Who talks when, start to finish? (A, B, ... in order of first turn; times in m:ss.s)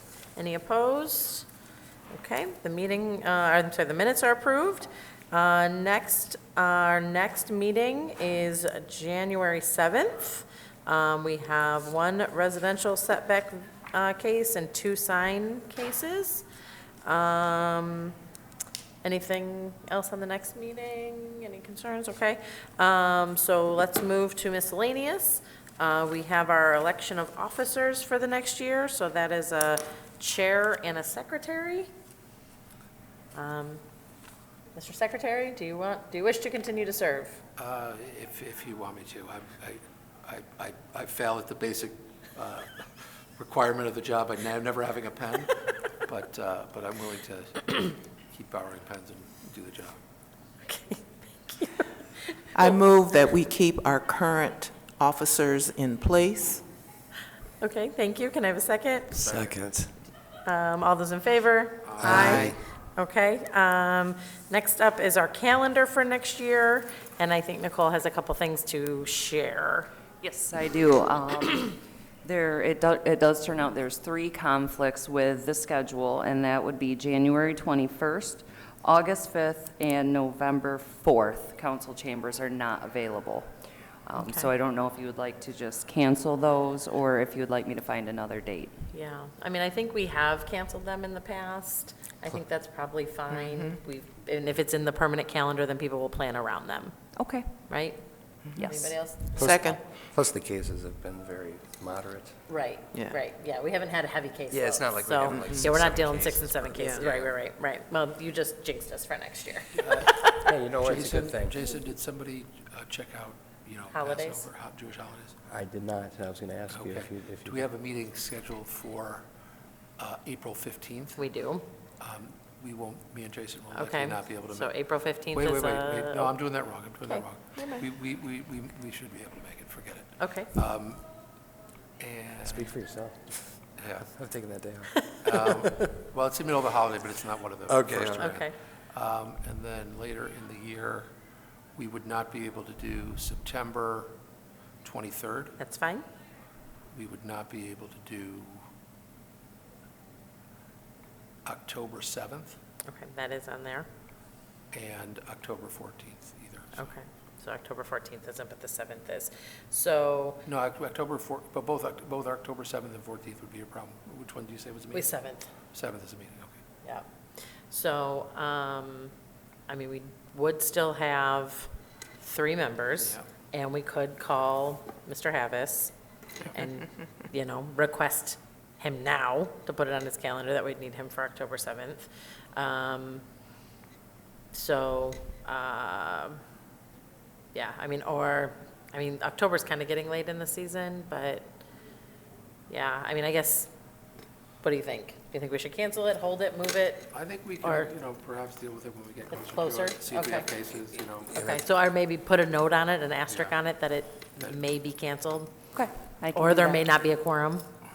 0:00.4-0:01.5 A
0:02.1-0:16.4 A
0:17.0-0:18.2 A
0:19.0-0:31.9 A
0:33.3-0:33.8 A
0:34.7-0:37.4 A
0:37.6-0:50.0 B
0:50.6-0:52.4 A
0:52.5-0:56.6 C
0:57.6-0:59.2 A
0:59.1-0:59.6 B
0:59.3-0:59.9 D
1:00.4-1:09.9 A
1:01.8-1:02.6 B
1:02.1-1:02.5 C
1:10.2-1:23.5 E
1:24.0-1:28.8 E
1:24.2-1:24.5 A
1:28.9-1:37.0 A
1:33.3-1:33.7 C
1:37.2-1:37.5 E
1:37.7-1:38.0 A
1:38.5-1:39.8 A
1:38.6-1:39.0 E
1:39.3-1:39.8 C
1:40.1-1:42.4 D
1:42.5-1:50.5 A
1:44.5-1:46.9 D
1:45.3-1:45.7 C
1:46.7-1:47.1 C
1:49.7-1:50.3 B
1:50.4-1:51.7 D
1:50.8-1:55.4 B
1:53.9-1:54.5 A
1:55.5-1:57.7 D
1:56.7-1:59.3 B
2:00.0-2:01.2 B
2:01.2-2:01.6 A
2:02.0-2:04.7 B
2:03.7-2:06.3 A
2:05.3-2:11.0 B
2:07.6-2:07.8 C
2:10.2-2:10.5 A
2:12.0-2:12.7 B
2:12.4-2:16.0 D
2:13.8-2:14.1 B
2:15.2-2:21.1 B
2:17.7-2:18.2 D
2:18.2-2:18.5 A
2:21.8-2:24.2 B
2:24.8-2:25.6 B
2:25.6-2:26.0 A
2:26.9-2:28.6 B
2:31.4-2:32.6 B
2:32.8-2:33.9 A
2:34.7-2:36.9 B
2:36.8-2:40.4 A
2:40.4-2:46.6 B
2:44.9-2:45.5 A
2:47.7-2:49.1 A
2:49.7-2:55.9 A
2:53.0-2:53.2 B
2:56.5-3:03.2 A
3:04.5-3:06.4 A
3:07.5-3:11.5 A
3:12.7-3:13.7 A
3:14.6-3:17.1 A
3:17.1-3:21.6 B
3:17.6-3:17.9 A
3:19.4-3:20.5 A
3:21.3-3:25.5 A
3:23.3-3:23.5 B
3:25.7-3:26.8 E
3:26.3-3:27.6 A